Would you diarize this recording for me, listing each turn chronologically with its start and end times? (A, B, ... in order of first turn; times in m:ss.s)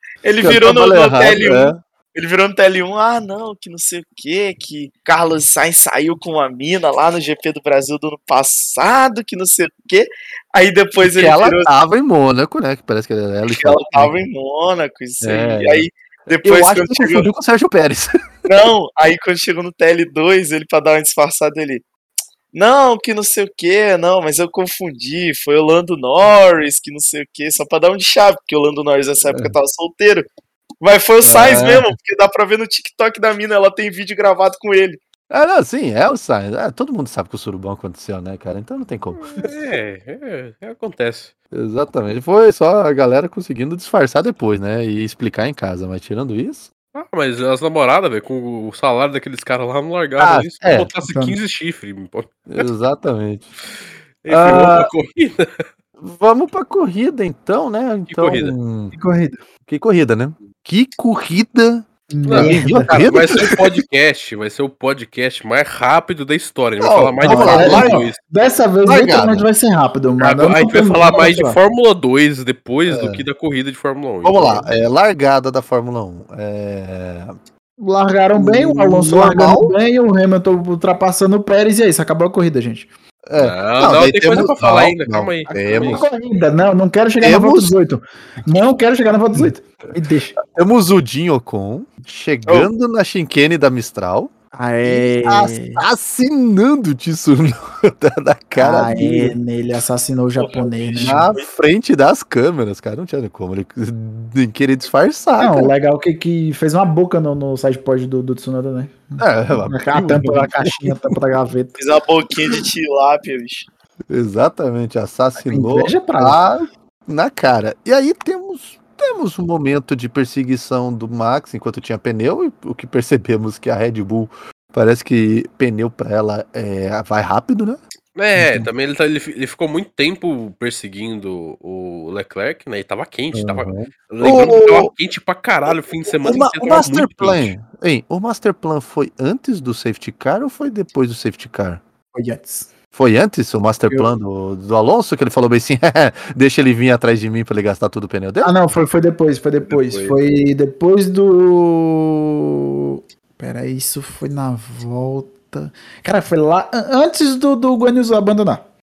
0:00.2-0:11.7 A
0:00.4-0:01.8 B
0:11.0-0:14.1 B
0:13.4-0:17.3 A
0:15.2-0:15.9 B
0:16.4-0:18.4 B
0:18.5-0:21.8 A
0:22.5-0:30.3 A
0:29.2-0:29.5 B
0:30.8-0:35.0 A
0:31.2-0:31.9 B
0:35.3-0:39.5 B
0:39.2-0:41.3 C
0:41.5-0:46.7 B
0:46.9-0:52.6 C
0:50.2-0:50.9 B
0:51.0-0:51.4 D
0:52.5-0:53.5 B
0:54.2-0:55.6 C
0:54.3-0:54.9 B
0:56.0-0:58.9 B
0:58.1-0:58.5 C
0:58.9-0:59.4 D
0:59.7-1:03.7 B
1:02.1-1:02.9 D
1:02.2-1:08.2 C
1:06.8-1:08.1 B
1:07.2-1:11.6 D
1:08.8-1:09.5 B
1:10.2-1:14.7 C
1:12.9-1:13.2 B
1:14.2-1:17.4 B
1:17.8-1:22.9 D
1:18.3-1:19.8 B
1:23.2-1:26.1 B
1:23.4-1:26.1 C
1:25.5-1:30.4 D
1:27.2-1:27.7 B
1:30.4-1:34.3 B
1:34.5-1:35.8 D
1:34.8-1:39.3 B
1:38.6-1:41.3 D
1:40.4-1:41.5 A
1:41.0-1:45.7 B
1:45.4-1:51.8 D
1:49.2-1:51.1 B
1:51.8-1:53.6 A
1:54.1-2:07.8 B
1:55.4-1:56.5 D
2:08.1-2:17.5 C
2:08.4-2:08.7 B
2:13.3-2:14.9 B
2:15.7-2:21.8 B
2:22.1-2:22.7 D
2:22.9-2:28.5 B
2:23.9-2:24.1 D
2:28.4-2:38.6 D